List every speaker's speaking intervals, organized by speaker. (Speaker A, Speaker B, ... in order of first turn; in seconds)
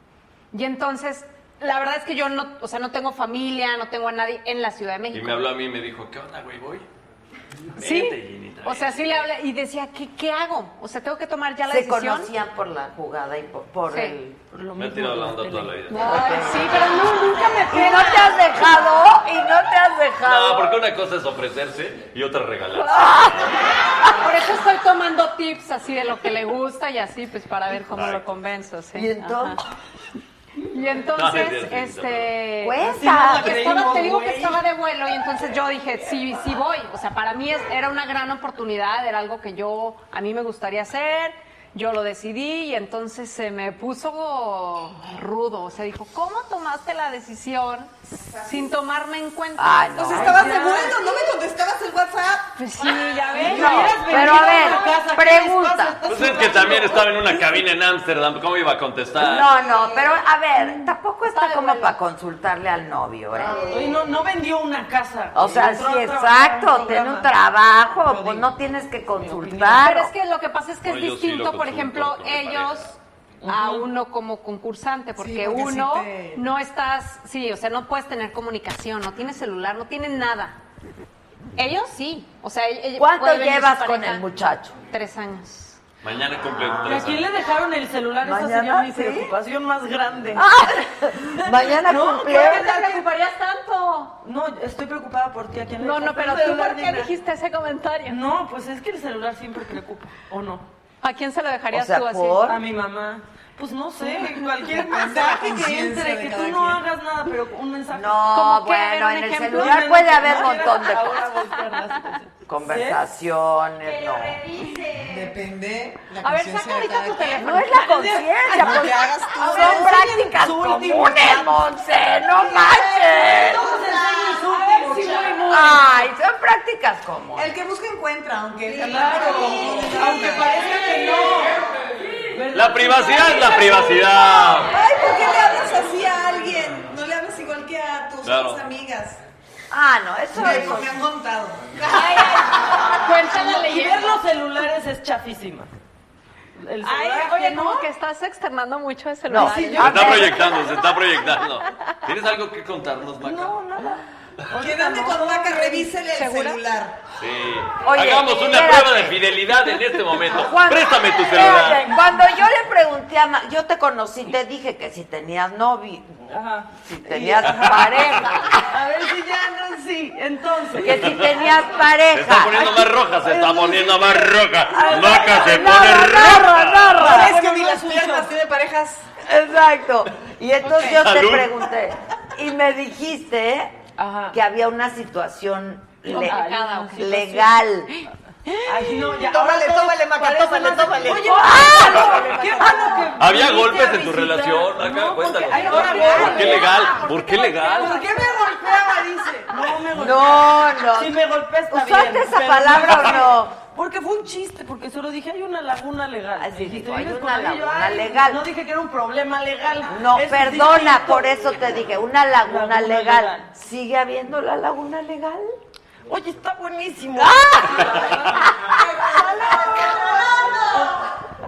Speaker A: 0.5-5.4, 7.8-12.3, 13.9-14.1, 15.9-18.5, 22.7-23.5, 24.0-29.6, 30.7-51.0, 52.6-54.8, 60.6-61.9, 69.8-72.9, 73.5-80.6, 81.5-84.2, 84.9-85.8, 92.0-94.1, 95.8-98.2, 101.0-102.5, 104.0-104.8, 108.3-110.0, 111.5-111.9, 116.2-119.9, 124.4-126.1, 129.0-129.4, 141.8-144.2, 146.8-151.0, 155.3-156.6, 180.6-181.0, 186.1-189.3, 191.3-191.8, 194.9-198.2
Speaker B: 5.1-6.9, 7.8-9.3, 14.8-16.2, 20.2-23.7, 27.8-28.3, 31.1-32.4, 56.1-59.6, 70.8-73.0, 86.0-87.3, 132.5-134.7, 138.2-138.6, 149.8-153.6, 157.2-162.1, 167.4-168.4, 172.1-177.1, 180.9-181.6, 193.2-198.0
Speaker C: 11.7-14.4, 16.0-16.9, 17.7-20.8, 23.0-23.6, 28.9-29.6, 32.6-33.7, 49.6-50.7, 53.4-56.0, 59.2-63.8, 65.3-70.1, 83.0-84.8, 86.6-87.1, 88.2-89.3, 90.3-92.7, 101.7-102.6, 107.9-111.3, 112.5-114.6, 117.4-123.7, 125.5-127.5, 139.7-141.0, 149.3-150.6, 157.8-159.3, 160.3-166.3, 166.8-168.6, 170.8-172.9, 174.8-177.3, 179.2-183.8, 184.3-186.4, 186.9-187.9, 191.1-193.0, 199.9-201.2, 201.7-203.6, 206.4-208.4, 209.9-215.5, 217.2-218.0
Speaker D: 14.5-15.9, 32.8-34.6, 52.8-57.2, 63.4-67.3, 68.0-68.5, 69.2-69.9, 73.4-73.9, 86.7-90.5, 91.5-93.0, 94.2-97.1, 98.1-100.6, 102.4-108.3, 109.5-113.0, 117.8-121.7, 122.3-125.5, 128.7-131.6, 132.3-134.6, 143.3-145.7, 146.5-147.9, 149.3-150.3, 153.2-155.8, 166.3-168.1, 168.7-171.7, 173.2-174.0, 174.8-175.7, 177.0-178.3, 184.0-184.4, 186.0-187.4, 188.7-211.8, 212.4-213.5, 216.1-221.0
Speaker E: 50.0-52.5, 75.2-76.4, 104.7-106.8, 115.0-117.4, 118.6-120.0, 127.3-130.7, 134.7-139.2, 140.3-142.4, 154.6-157.0, 177.0-179.1, 189.3-191.4, 191.9-193.0, 198.0-199.7, 218.7-220.9